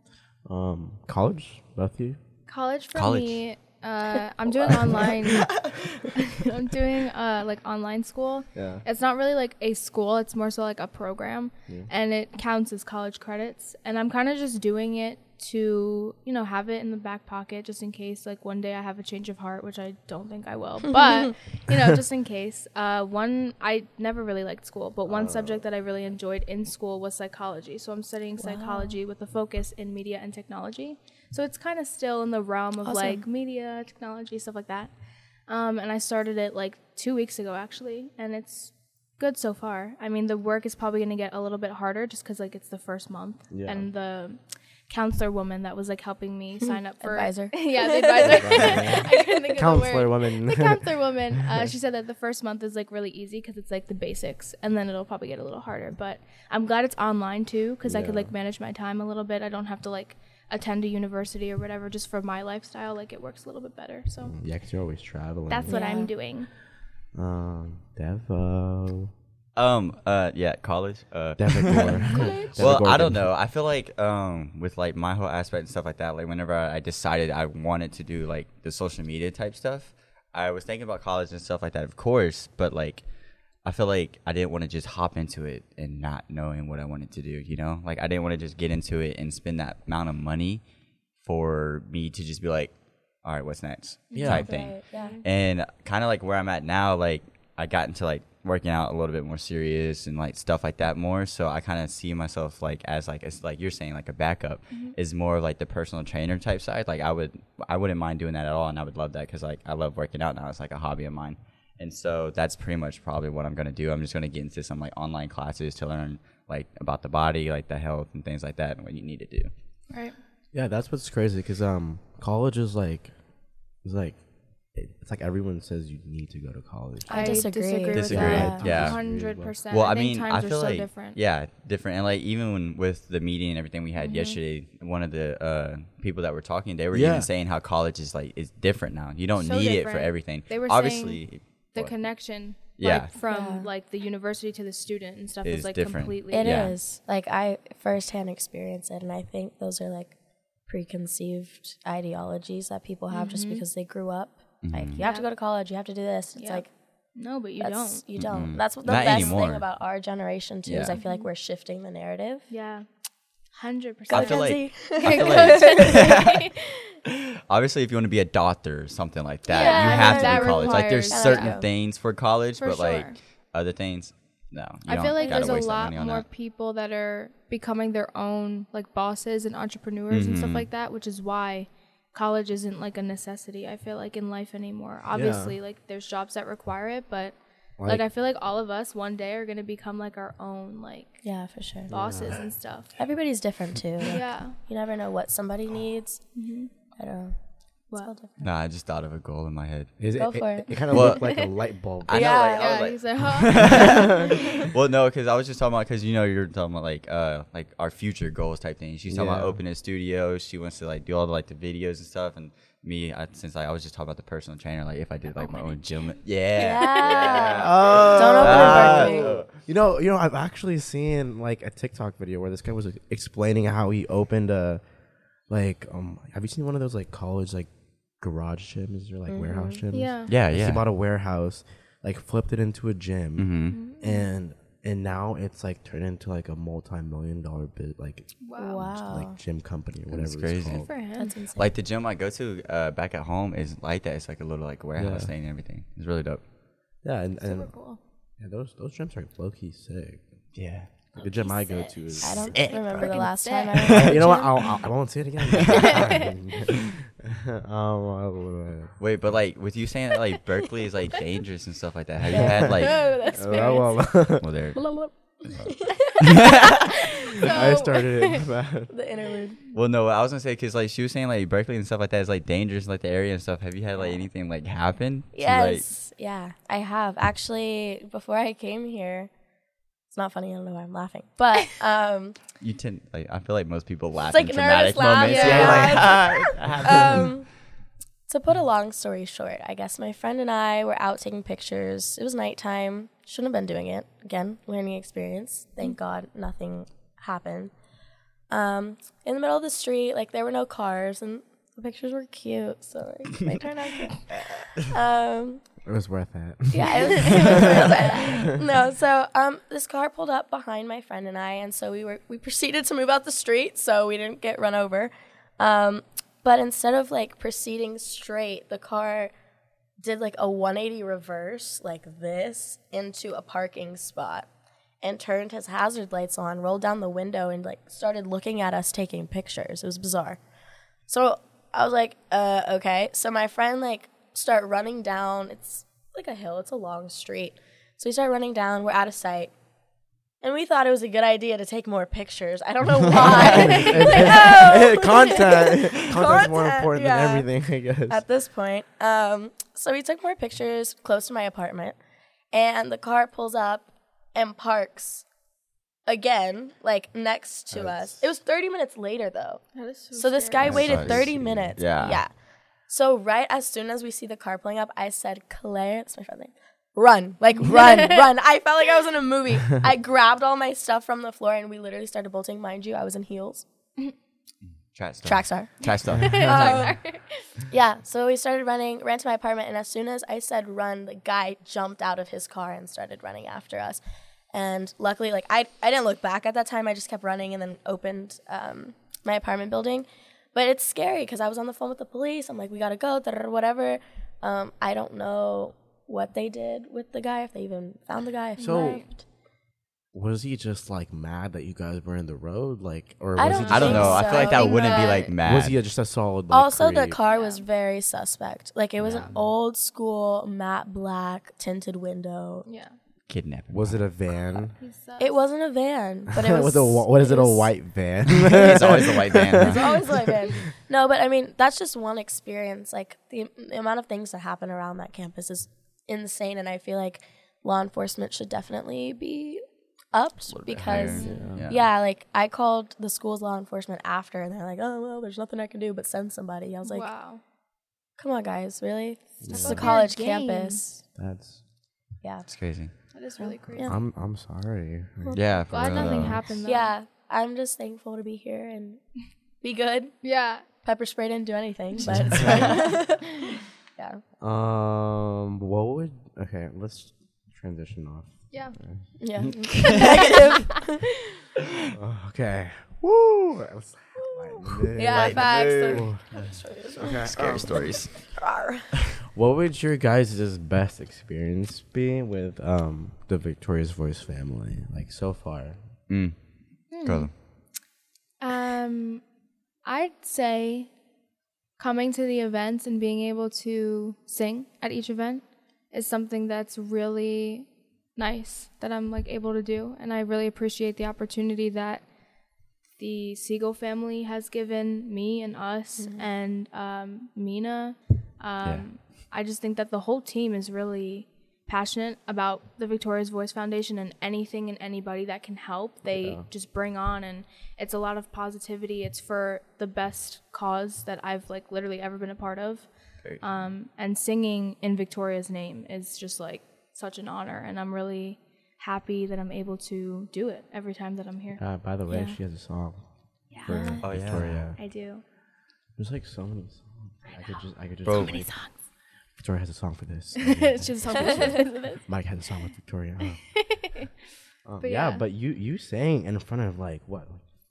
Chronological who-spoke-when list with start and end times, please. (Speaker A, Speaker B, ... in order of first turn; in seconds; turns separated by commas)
Speaker A: 0.5-2.2, Speaker B: 2.5-34.9, Speaker C: 3.0-3.4, Speaker A: 8.6-8.8, Speaker A: 25.1-25.6, Speaker D: 28.4-29.0, Speaker D: 32.9-33.2, Speaker B: 35.5-64.3, Speaker A: 43.5-43.9, Speaker D: 47.0-48.9, Speaker A: 48.3-50.9, Speaker A: 51.4-51.7, Speaker A: 57.9-58.3, Speaker A: 64.3-65.8, Speaker B: 65.5-66.5, Speaker D: 65.7-66.1, Speaker A: 67.2-69.1, Speaker C: 69.6-83.0, Speaker A: 71.4-73.3, Speaker B: 72.0-72.7, Speaker C: 83.6-90.6, Speaker C: 91.2-119.5, Speaker B: 94.1-95.2, Speaker A: 94.1-94.5, Speaker D: 94.3-95.2, Speaker B: 119.9-120.2, Speaker A: 120.5-123.1, Speaker A: 123.8-124.2, Speaker A: 124.8-127.4, Speaker D: 127.1-128.6, Speaker B: 127.1-131.2, Speaker C: 127.9-129.0, Speaker A: 128.0-129.6, Speaker C: 129.7-141.9, Speaker B: 134.0-134.4, Speaker A: 136.9-137.3, Speaker B: 139.4-141.2, Speaker B: 141.7-146.7, Speaker C: 142.8-143.1, Speaker D: 143.2-143.7, Speaker C: 145.4-146.8, Speaker D: 146.3-150.2, Speaker D: 150.7-156.7, Speaker B: 153.1-153.7, Speaker C: 154.6-155.0, Speaker B: 155.0-155.3, Speaker B: 156.4-156.7, Speaker B: 157.2-158.0, Speaker D: 157.6-162.5, Speaker C: 158.2-159.7, Speaker C: 160.7-161.0, Speaker B: 160.9-161.3, Speaker B: 162.5-162.9, Speaker B: 163.6-166.8, Speaker D: 164.1-166.5, Speaker C: 164.1-166.5, Speaker C: 167.1-176.2, Speaker B: 169.5-171.6, Speaker D: 169.5-171.7, Speaker B: 172.6-173.2, Speaker B: 174.9-191.2, Speaker D: 175.1-175.5, Speaker C: 180.1-180.7, Speaker A: 185.1-185.6, Speaker A: 187.8-188.1, Speaker D: 191.2-191.9, Speaker A: 191.9-192.4, Speaker B: 191.9-192.9, Speaker D: 193.0-196.2, Speaker B: 194.1-194.6, Speaker B: 196.3-196.7, Speaker D: 197.0-197.3, Speaker D: 197.9-198.5, Speaker C: 198.4-199.9, Speaker A: 200.0-202.4, Speaker D: 200.2-200.9, Speaker C: 200.9-201.5, Speaker C: 202.1-219.5, Speaker D: 202.1-202.8, Speaker B: 202.5-204.7, Speaker A: 203.9-204.3, Speaker A: 209.1-209.6, Speaker D: 216.6-219.4, Speaker B: 216.7-217.5, Speaker A: 217.6-224.8, Speaker A: 225.5-240.9, Speaker D: 229.3-229.8, Speaker B: 229.9-230.3, Speaker C: 230.3-230.9, Speaker C: 233.4-233.8, Speaker B: 233.7-234.3, Speaker B: 238.4-238.9, Speaker D: 238.6-239.4, Speaker C: 240.1-240.9, Speaker B: 240.8-241.3, Speaker D: 241.2-241.7, Speaker C: 241.6-246.4, Speaker A: 245.0-245.3, Speaker A: 247.0-247.7, Speaker B: 247.4-248.0, Speaker A: 248.4-250.2, Speaker C: 250.6-250.9, Speaker A: 251.2-252.8, Speaker D: 251.2-254.5, Speaker C: 252.5-253.0, Speaker B: 252.7-254.4, Speaker C: 253.8-254.3, Speaker A: 253.8-258.9, Speaker C: 255.5-256.0, Speaker B: 255.7-256.4, Speaker C: 259.0-263.1, Speaker D: 262.3-263.8, Speaker A: 262.3-264.5, Speaker B: 262.7-264.0, Speaker C: 264.4-264.8, Speaker D: 264.8-267.8, Speaker C: 265.5-266.8, Speaker B: 266.1-268.3, Speaker A: 267.5-268.9, Speaker D: 268.9-269.6, Speaker C: 269.7-275.9, Speaker D: 275.3-279.3, Speaker D: 280.1-282.4, Speaker C: 282.6-287.3, Speaker D: 284.3-287.5, Speaker B: 285.2-286.1, Speaker D: 288.3-297.7, Speaker D: 298.5-305.6, Speaker A: 305.9-308.4, Speaker D: 306.7-319.3, Speaker D: 320.0-324.5, Speaker D: 325.0-330.4, Speaker D: 331.1-339.5, Speaker D: 340.4-347.5, Speaker A: 343.1-348.2, Speaker C: 343.1-344.0, Speaker B: 343.6-344.5, Speaker D: 348.1-352.0, Speaker D: 352.5-355.2, Speaker D: 356.1-359.6, Speaker A: 357.7-358.1, Speaker B: 359.8-360.8, Speaker D: 360.1-362.3, Speaker A: 360.6-361.8, Speaker C: 360.6-362.2, Speaker D: 362.9-373.7, Speaker C: 374.9-376.9, Speaker D: 375.3-377.0, Speaker B: 376.1-377.4, Speaker D: 377.7-384.0, Speaker D: 384.5-399.2, Speaker B: 398.6-399.1, Speaker A: 398.6-399.0, Speaker A: 400.1-404.3, Speaker D: 403.4-405.3, Speaker C: 403.7-405.8, Speaker B: 403.8-405.3, Speaker A: 405.4-407.2, Speaker D: 406.5-412.7, Speaker B: 407.3-407.7, Speaker C: 409.0-409.3, Speaker B: 412.7-412.9, Speaker C: 413.3-414.1, Speaker A: 413.7-414.8, Speaker B: 414.8-415.4, Speaker D: 415.2-417.7, Speaker A: 416.4-420.5, Speaker C: 418.4-420.0, Speaker D: 419.6-437.1, Speaker C: 430.5-431.9, Speaker B: 431.1-431.5, Speaker A: 431.2-431.7, Speaker B: 436.9-437.4, Speaker D: 438.2-441.0, Speaker A: 439.4-440.0, Speaker B: 439.5-440.8, Speaker A: 441.2-441.6, Speaker C: 442.5-442.9, Speaker B: 443.1-443.9, Speaker D: 443.4-443.9, Speaker A: 443.8-446.4, Speaker C: 445.4-446.4, Speaker B: 445.7-446.9, Speaker D: 446.6-449.0, Speaker D: 449.6-450.2, Speaker B: 450.2-450.6, Speaker D: 450.8-454.2, Speaker A: 452.3-452.7, Speaker B: 452.5-452.7, Speaker A: 454.4-459.0, Speaker D: 459.2-461.1, Speaker C: 459.4-460.5, Speaker A: 461.9-466.2, Speaker D: 464.9-467.3, Speaker B: 465.0-466.1, Speaker C: 465.1-466.4, Speaker A: 467.0-467.9, Speaker C: 467.1-468.1, Speaker D: 468.4-468.9, Speaker A: 469.3-475.8, Speaker C: 476.1-476.4, Speaker B: 476.9-477.3, Speaker C: 476.9-477.3, Speaker B: 478.4-479.2, Speaker B: 479.9-480.9, Speaker B: 481.8-492.0, Speaker B: 493.0-522.4, Speaker D: 496.0-496.3, Speaker A: 506.1-506.5, Speaker A: 521.6-523.0, Speaker B: 523.5-524.0, Speaker A: 523.6-524.8, Speaker D: 523.7-524.0, Speaker C: 524.0-524.6, Speaker B: 524.8-525.2, Speaker A: 526.0-528.5, Speaker C: 528.0-528.4, Speaker B: 528.1-528.8, Speaker A: 529.4-533.5, Speaker B: 530.4-532.0, Speaker D: 531.1-531.6, Speaker B: 533.6-534.1, Speaker A: 534.7-537.4, Speaker B: 534.8-535.2